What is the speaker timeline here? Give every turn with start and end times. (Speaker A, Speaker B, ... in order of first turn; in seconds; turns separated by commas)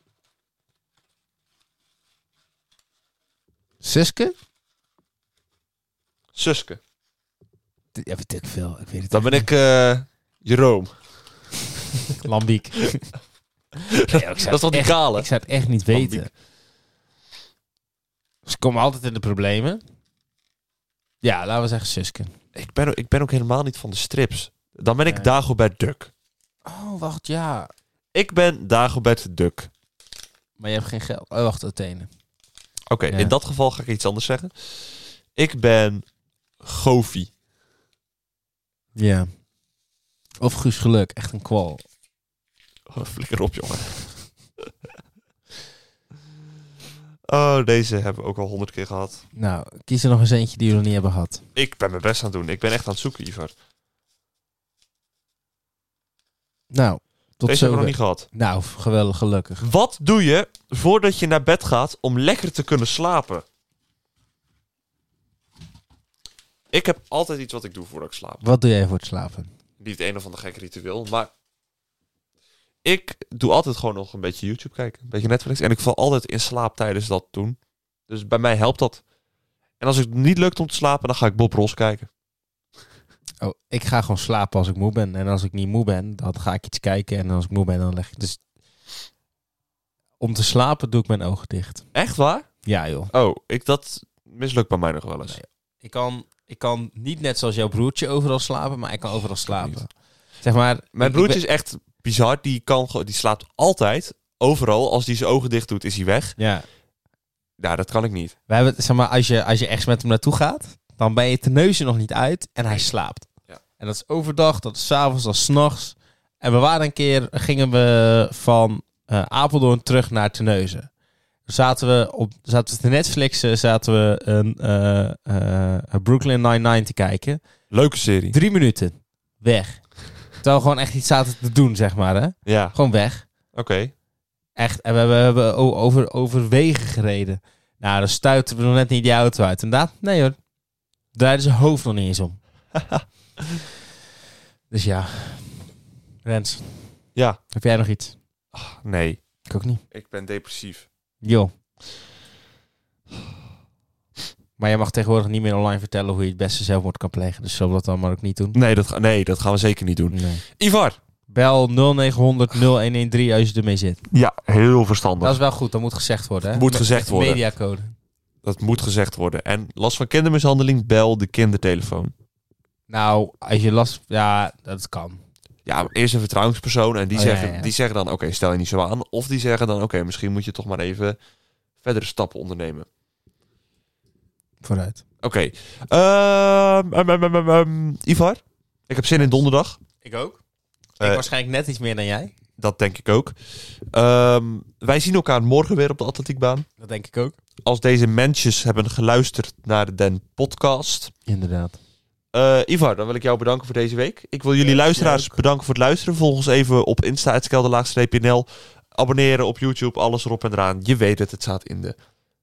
Speaker A: 3.8-4.3, Speaker B: 6.3-6.8, Speaker A: 8.0-9.5, Speaker B: 9.1-10.9, Speaker A: 12.2-13.1, Speaker B: 13.9-15.3, Speaker A: 14.0-16.3, Speaker B: 15.9-16.3, Speaker A: 18.4-19.8, Speaker A: 21.2-22.3, Speaker B: 22.5-26.1, Speaker A: 25.1-25.3, Speaker A: 26.6-27.7, Speaker B: 28.1-29.7, Speaker A: 30.6-32.1, Speaker B: 32.9-34.5, Speaker B: 35.4-36.0, Speaker B: 36.6-37.3, Speaker A: 39.0-39.3, Speaker A: 40.4-41.8, Speaker B: 42.9-44.3, Speaker B: 47.3-49.2, Speaker A: 49.3-51.4, Speaker B: 51.5-53.5, Speaker A: 56.7-59.6, Speaker B: 57.5-58.3, Speaker B: 59.6-63.4, Speaker B: 66.7-68.4, Speaker A: 68.4-69.5, Speaker B: 69.8-71.3, Speaker B: 72.8-77.6, Speaker B: 78.1-79.0, Speaker B: 79.8-82.1, Speaker A: 83.4-88.4, Speaker A: 90.2-91.8, Speaker B: 91.9-92.4, Speaker A: 92.6-93.1, Speaker B: 93.1-95.4, Speaker A: 95.3-99.9, Speaker B: 99.5-99.8, Speaker A: 100.4-101.4, Speaker B: 100.9-106.3, Speaker A: 106.4-106.6, Speaker B: 107.6-108.3, Speaker A: 108.5-113.3, Speaker A: 113.8-120.9, Speaker A: 121.5-127.4, Speaker B: 127.7-128.4, Speaker A: 128.3-129.8, Speaker A: 130.4-133.2, Speaker B: 132.4-132.8, Speaker B: 133.5-133.9, Speaker A: 134.6-140.4, Speaker A: 141.1-142.4, Speaker A: 144.7-145.7, Speaker A: 146.2-148.2, Speaker B: 148.5-149.2, Speaker A: 149.5-149.8, Speaker B: 149.9-150.9, Speaker A: 151.2-151.5, Speaker A: 154.6-158.6, Speaker B: 158.5-161.0, Speaker A: 160.1-160.4, Speaker A: 161.3-164.0, Speaker B: 164.1-165.4, Speaker A: 165.2-167.9, Speaker B: 166.5-167.4, Speaker B: 168.4-172.1, Speaker A: 172.9-175.2, Speaker B: 175.7-181.2, Speaker A: 177.1-177.7, Speaker B: 181.8-182.8, Speaker A: 184.6-185.0, Speaker B: 185.2-189.8, Speaker A: 190.0-190.4, Speaker A: 191.0-192.3, Speaker B: 192.6-193.3, Speaker B: 193.9-196.7, Speaker A: 196.8-197.3, Speaker B: 197.6-201.1, Speaker A: 201.3-201.8, Speaker B: 202.3-212.0, Speaker A: 204.6-205.3